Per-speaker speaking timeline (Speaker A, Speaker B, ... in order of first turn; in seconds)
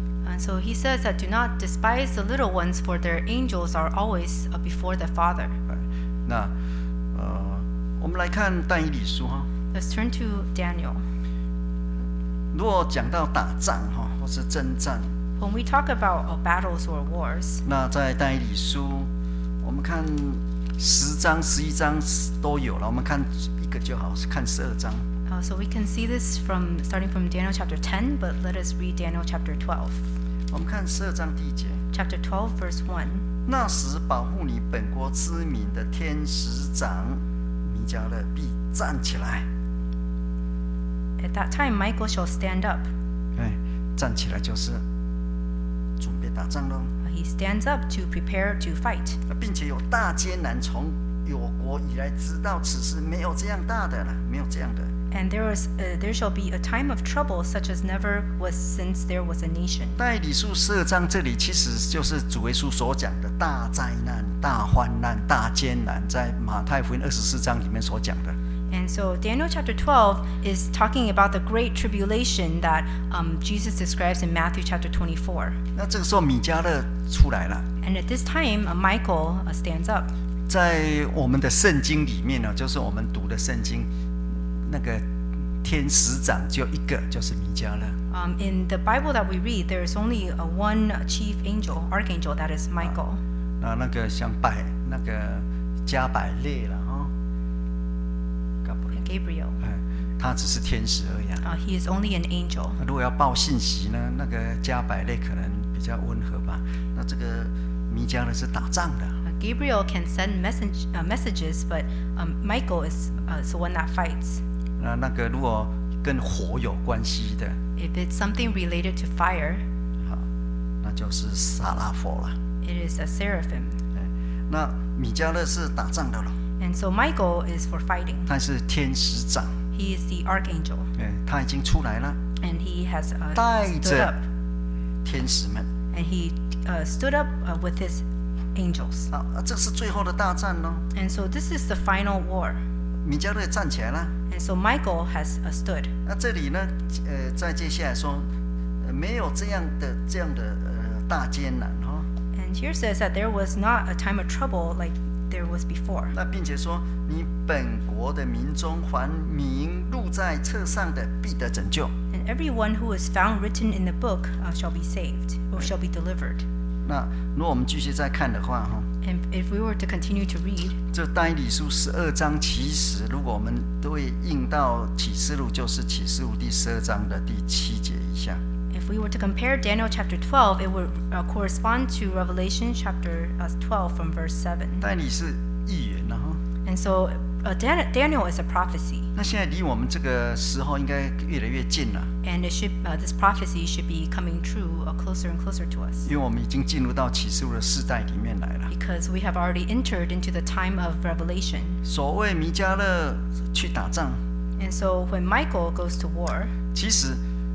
Speaker A: 0.2-5.6, 9.7-11.0, 15.4-17.6, 25.3-30.1, 31.9-33.2, 41.2-42.9, 47.0-49.2, 55.1-60.0, 68.7-75.6, 77.8-80.1, 88.1-93.2, 98.9-99.6, 101.4-102.8, 109.2-114.4, 117.8-119.6, 122.6-123.8, 126.6-128.3, 129.7-130.9, 132.4-134.2, 135.9-139.1, 140.9-142.6, 144.3-145.9, 152.3-156.2, 162.1-166.5, 169.0-170.8, 178.7-184.8, 186.7-189.1, 192.2-196.1, 198.7-201.8, 204.6-206.5
Speaker B: 5.7-6.5, 7.1-9.5, 12.5-15.1, 17.6-19.1, 19.6-25.1, 30.5-31.8, 33.5-39.5, 43.4-44.8, 46.0-46.9, 49.3-54.9, 60.0-68.4, 75.8-77.7, 80.5-83.9, 84.6-85.0, 85.6-88.0, 93.6-97.1, 98.6-99.0, 99.6-101.4, 102.8-109.2, 114.8-117.6, 120.8-122.4, 124.0-126.3, 128.3-129.5, 131.0-132.2, 133.3-134.2, 135.1-135.7, 139.1-140.8, 143.0-144.1, 146.1-148.3, 148.8-152.1, 156.1-161.9, 166.8-168.9, 170.9-178.4, 184.8-186.4, 189.2-192.1, 196.0-198.7, 201.8-204.2, 206.7-207.2